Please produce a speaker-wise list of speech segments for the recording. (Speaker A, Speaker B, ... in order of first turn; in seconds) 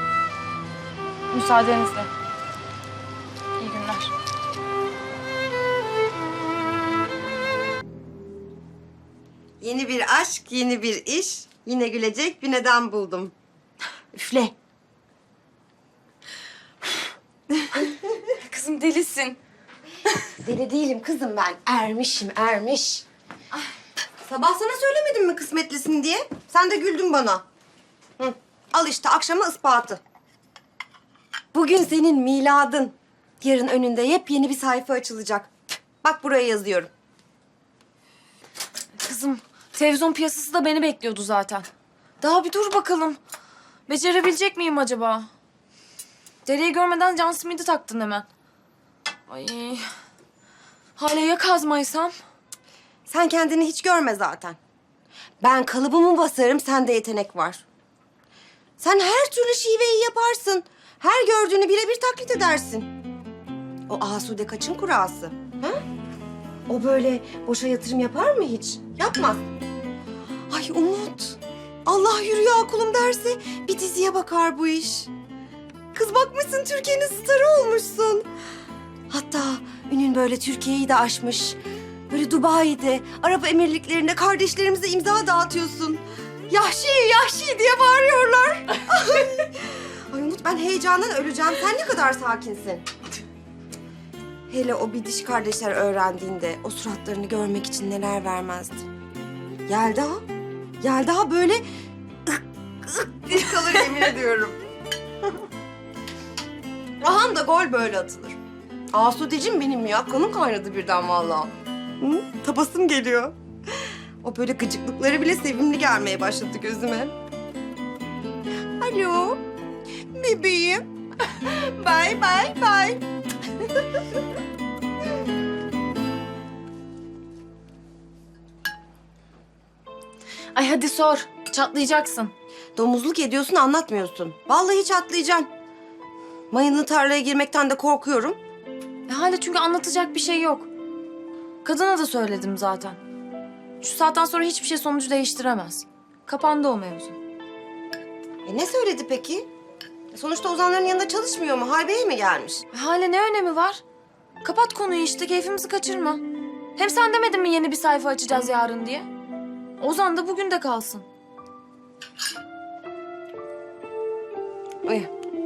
Speaker A: 1.3-2.1, 3.6-4.1, 18.4-19.4, 39.0-41.7, 42.2-43.2, 43.9-45.3, 46.4-48.2, 49.3-49.8, 51.0-52.1, 130.5-132.3, 139.1-140.7, 141.6-143.0, 143.8-147.2, 152.7-153.8, 154.4-156.2, 156.8-159.1, 159.8-161.1
Speaker B: 9.6-13.3, 14.1-14.5, 20.4-23.0, 24.2-27.4, 28.2-30.0, 31.5-35.5, 36.0-36.9, 53.1-54.6, 55.4-57.6, 58.8-62.9, 63.9-65.8, 66.7-69.4, 70.5-75.1, 75.9-78.2, 79.1-81.6, 82.1-92.8, 94.5-98.8, 99.7-100.2, 100.8-101.6, 102.3-104.6, 107.0-108.4, 108.9-113.3, 114.2-117.1, 118.8-119.4, 120.1-120.8, 121.4-123.0, 132.8-135.5, 136.5-138.4, 148.4-149.5, 150.1-152.6, 164.8-165.1